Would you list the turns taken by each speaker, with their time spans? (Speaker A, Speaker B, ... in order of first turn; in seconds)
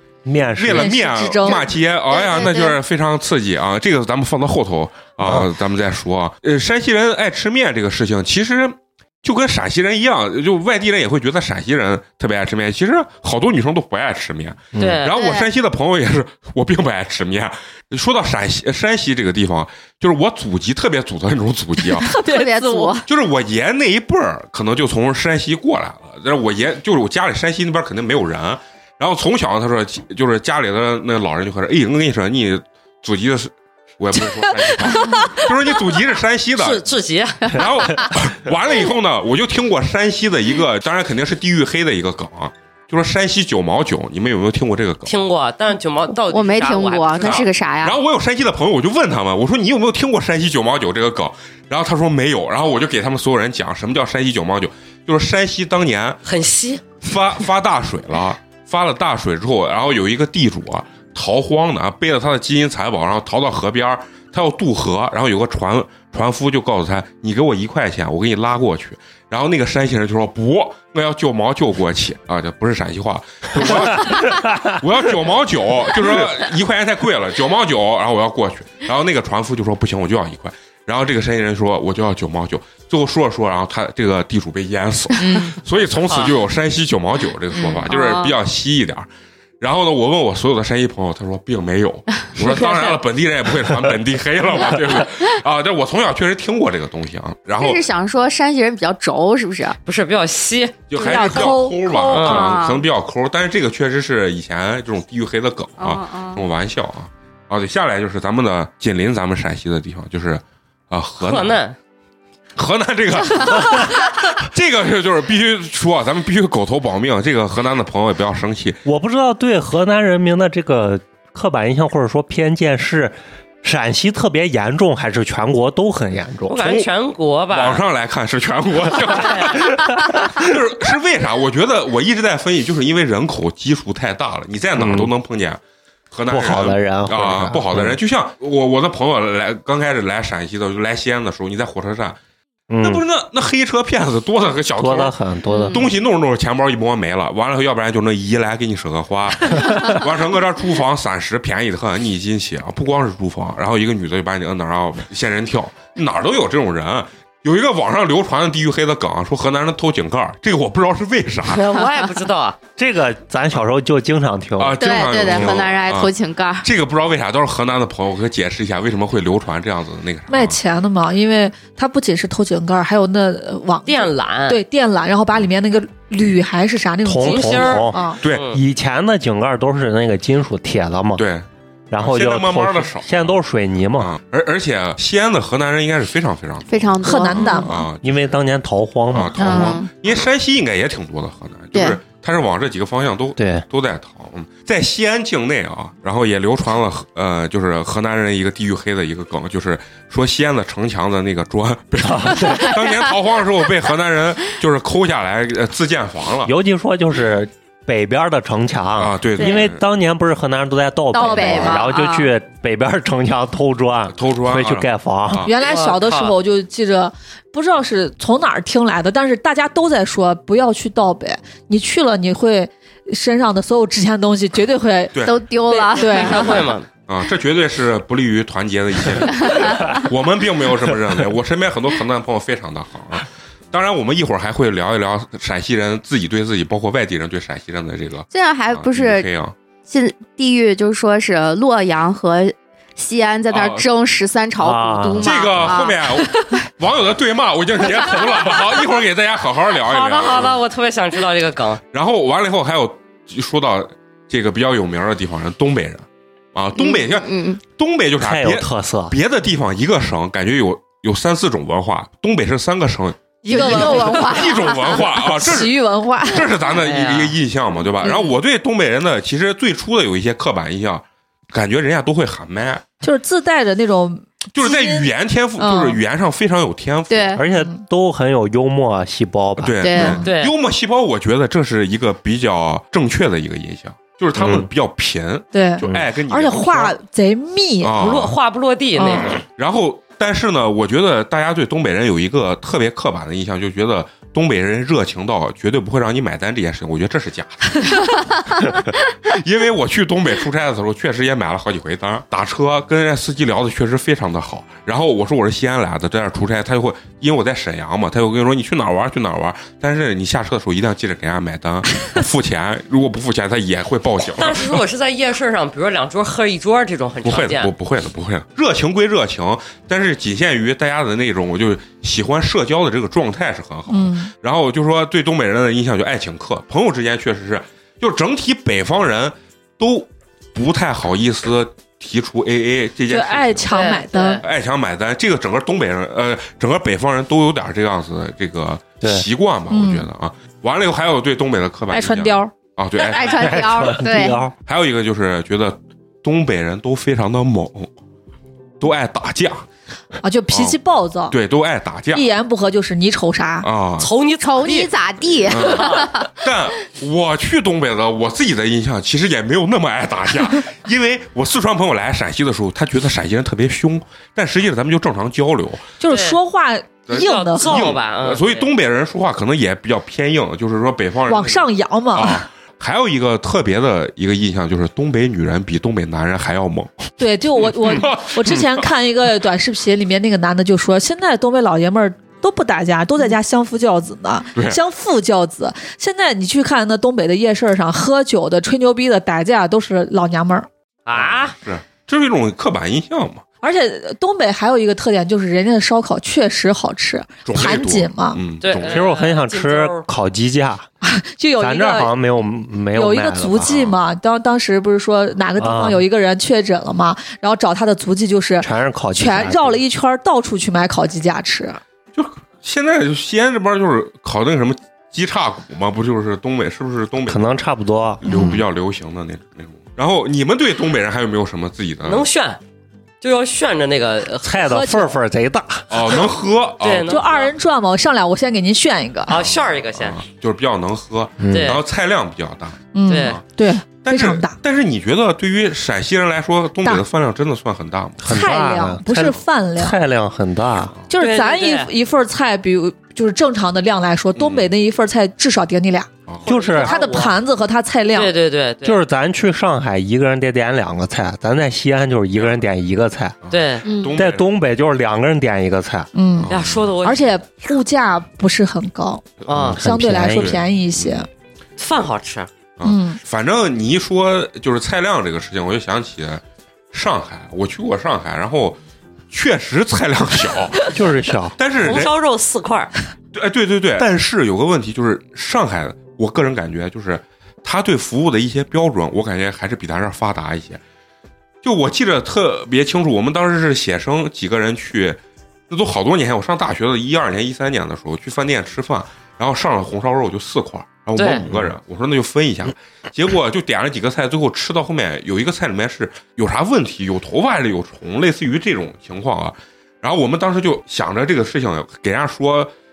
Speaker A: 0.2-1.0, 5.2-5.5, 14.7-15.0, 118.8-126.7, 134.8-135.1, 136.3-138.0, 142.7-143.0, 144.8-145.8, 162.8-165.6, 177.0-181.2, 181.9-184.1, 188.0-189.8, 193.4-193.7, 202.0-202.7, 206.4-215.5, 244.6-245.7, 258.2-259.1, 277.4-280.1, 284.4-284.7, 343.3-344.5, 398.8-400.9, 401.6-403.8, 405.6-406.0, 408.6-409.8, 417.3-418.6, 424.4-426.1, 431.4-431.8, 438.2-440.9, 446.5-446.9, 448.8-453.3, 454.1-456.1, 459.6-460.6, 470.9-471.5
Speaker B: 0.6-22.1, 23.1-36.9, 37.5-45.2, 47.2-56.2, 57.0-89.1, 89.6-97.8, 100.9-111.6, 112.5-118.8, 126.6-126.9, 127.5-135.6, 136.1-142.2, 142.8-145.2, 145.7-161.7, 164.6-170.6, 178.2-178.5, 181.2-181.4, 182.0-183.3, 184.0-188.1, 189.1-206.5, 209.0-209.8, 214.1-215.5, 226.1-239.5, 243.5-243.8, 245.2-250.6, 251.9-272.8, 274.5-277.4, 279.6-287.0, 287.8-288.3, 289.1-314.8, 317.2-333.7, 334.4-347.9, 348.8-349.6, 350.5-350.8, 351.3-352.2, 353.6-354.1, 355.4-365.9, 367.1-378.9, 384.5-384.8, 391.1-393.4, 397.4-399.1, 403.6-404.0, 412.1-417.4, 418.2-422.3, 425.9-427.2, 429.4-433.4, 434.0-438.2, 444.4-444.7, 446.3-446.5, 453.4-454.5, 456.4-456.9, 459.5-461.2, 462.8-468.8, 469.3-471.0, 471.6-472.1, 473.3-480.8, 481.6-502.7
Speaker C: 0.7-1.6, 21.9-23.0, 101.0-102.3, 170.3-178.2, 187.0-187.8, 211.2-211.7, 215.4-226.7, 263.4-266.5, 273.0-276.0, 277.5-277.8, 285.5-288.0, 289.0-289.3, 323.9-324.3, 333.1-334.4, 339.7-340.1, 341.9-342.5, 350.2-351.4, 352.1-353.7, 366.0-367.9, 371.2-372.4, 377.2-390.7, 393.6-398.4, 401.0-402.1, 402.9-411.8, 418.3-418.5, 424.6-425.2, 427.1-429.4, 432.9-434.6, 438.3-439.9, 441.1-446.1, 446.8-448.3, 456.1-459.2, 459.8-461.3, 462.8-463.2
Speaker D: 1.4-2.8, 15.1-15.5, 22.1-23.1, 46.3-48.0, 85.2-85.5, 87.5-88.4, 97.6-99.8, 102.1-102.9, 105.8-106.4, 145.5-145.9, 164.8-166.7, 186.7-187.8, 189.4-189.9, 191.7-192.0, 211.1-212.3, 225.2-226.7, 229.3-230.0, 238.3-239.3, 239.9-246.2, 256.7-257.6, 263.5-265.0, 268.0-268.3, 277.1-277.4, 279.8-280.2, 343.0-344.4, 354.4-356.3, 453.8-454.2
Speaker E: 14.8-15.1, 36.6-38.0, 45.0-47.5, 56.2-56.8, 86.1-86.4, 92.5-92.7, 99.8-101.6, 102.1-102.6, 111.2-111.8, 126.5-127.8, 129.1-129.6, 161.4-162.6, 173.8-174.6, 177.2-178.6, 215.6-216.3, 226.1-226.9, 249.8-251.8, 266.7-267.4, 280.2-280.5, 287.9-289.4, 314.4-317.7, 333.7-334.4, 354.0-354.9, 355.5-356.2, 366.1-366.4, 367.1-368.7, 391.1-391.6, 398.6-400.0, 422.0-422.6, 423.2-424.6, 426.8-427.5, 429.3-430.2, 431.5-431.8, 433.1-433.4, 441.2-441.9, 446.4-447.4, 448.1-449.0, 453.5-453.9, 456.5-457.3, 459.5-459.8, 461.8-462.5, 471.8-472.9, 491.1-491.4